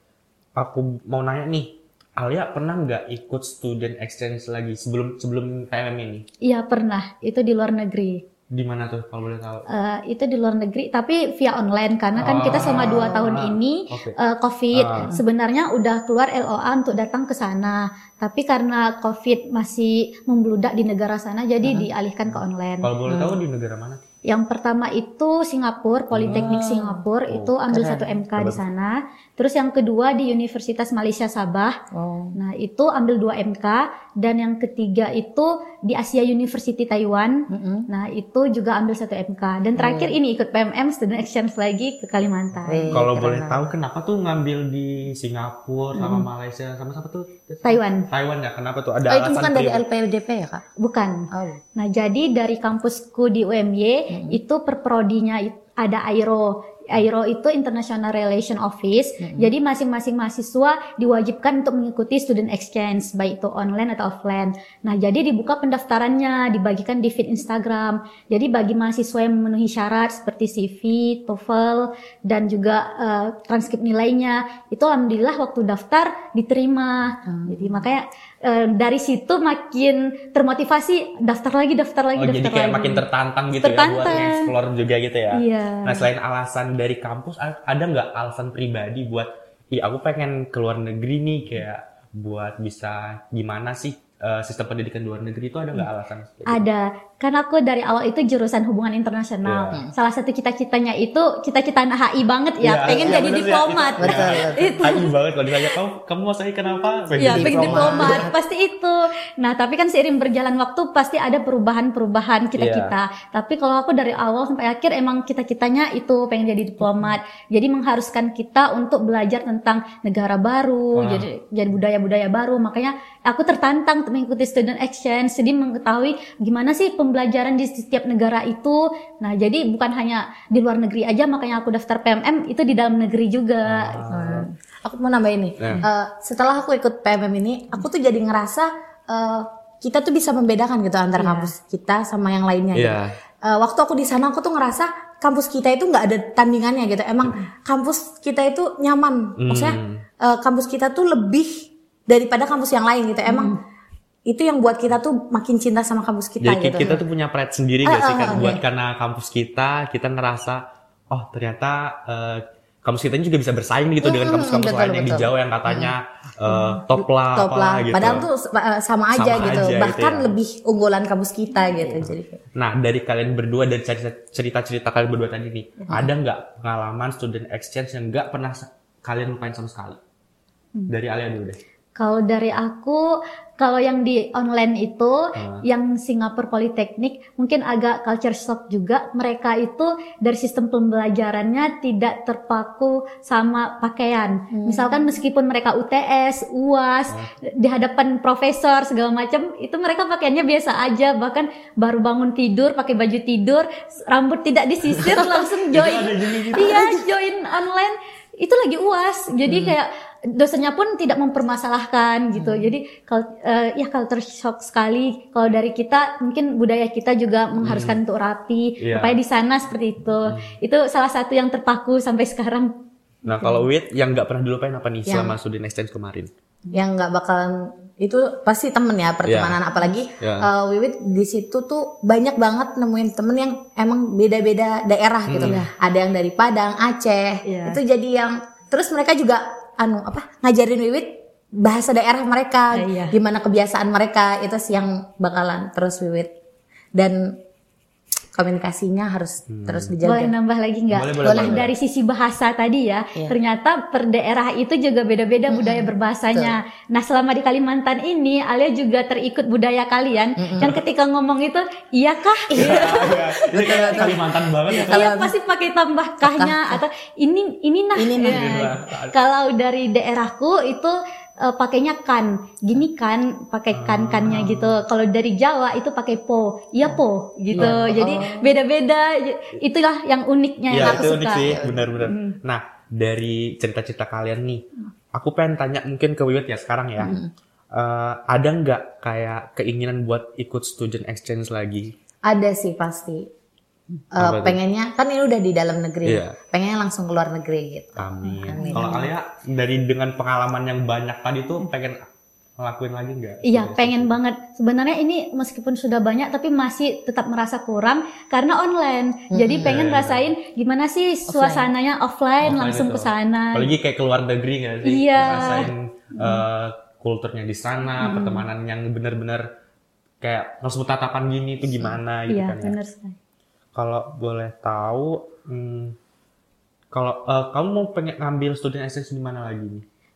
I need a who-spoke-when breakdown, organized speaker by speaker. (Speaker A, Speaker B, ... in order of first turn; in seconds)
Speaker A: 0.6-6.2, 8.5-9.7, 12.2-14.2, 14.7-15.1, 22.3-24.0, 26.1-26.6, 28.4-28.6, 42.9-49.8, 82.2-96.7, 99.4-99.8, 102.6-108.3, 112.6-112.9, 121.0-121.2, 133.7-134.4, 135.6-135.8, 142.7-143.1, 149.4-150.0, 156.4-168.3, 169.1-170.3, 172.0-180.0, 180.9-181.6, 185.3-185.6, 205.0-207.0, 217.6-217.9, 218.8-219.2, 220.2-220.5, 223.2-226.3, 229.2-229.6, 230.2-230.5, 235.3-235.6, 249.5-249.9, 250.9-251.7, 262.5-265.1, 268.2-269.1, 273.7-274.8, 277.5-278.0, 280.7-284.6, 285.1-287.1, 287.7-291.9, 294.2-294.6, 296.0-296.3, 297.9-302.0, 302.6-304.2, 309.6-310.3, 312.4-319.4, 320.2-322.7, 323.7-325.9, 326.9-329.8
Speaker B: 6.4-8.2, 9.7-22.9, 24.2-31.8, 32.4-43.0, 47.6-48.1, 50.8-83.0, 83.6-84.5, 85.3-86.0, 96.5-105.1, 107.2-134.0, 141.2-141.5, 153.3-153.6, 181.9-222.8, 235.4-235.7, 237.4-237.8, 242.7-243.1, 250.0-264.2, 264.8-282.4, 298.5-299.0, 303.4-313.7, 314.8-316.4, 318.0-318.5, 322.3-323.1
Speaker C: 12.2-13.2, 21.6-21.9, 23.1-23.4, 26.3-27.0, 27.7-28.2, 31.9-32.4, 37.5-37.9, 39.8-40.1, 42.7-43.7, 46.0-46.3, 49.0-50.6, 51.3-51.6, 54.1-54.4, 59.2-59.5, 77.2-77.8, 102.8-103.2, 104.0-104.8, 107.2-108.3, 116.8-117.1, 134.1-153.5, 154.3-157.0, 157.8-158.6, 164.0-165.9, 167.2-172.4, 194.5-195.1, 209.4-209.8, 212.3-212.7, 225.1-225.4, 226.7-246.3, 246.9-247.3, 248.3-250.3, 251.2-251.7, 255.5-256.6, 260.4-260.7, 262.5-265.3, 266.2-266.8, 267.9-268.7, 277.5-278.6, 280.8-281.9, 287.0-287.3, 292.2-293.3, 294.1-299.1, 309.3-309.8, 311.3-311.7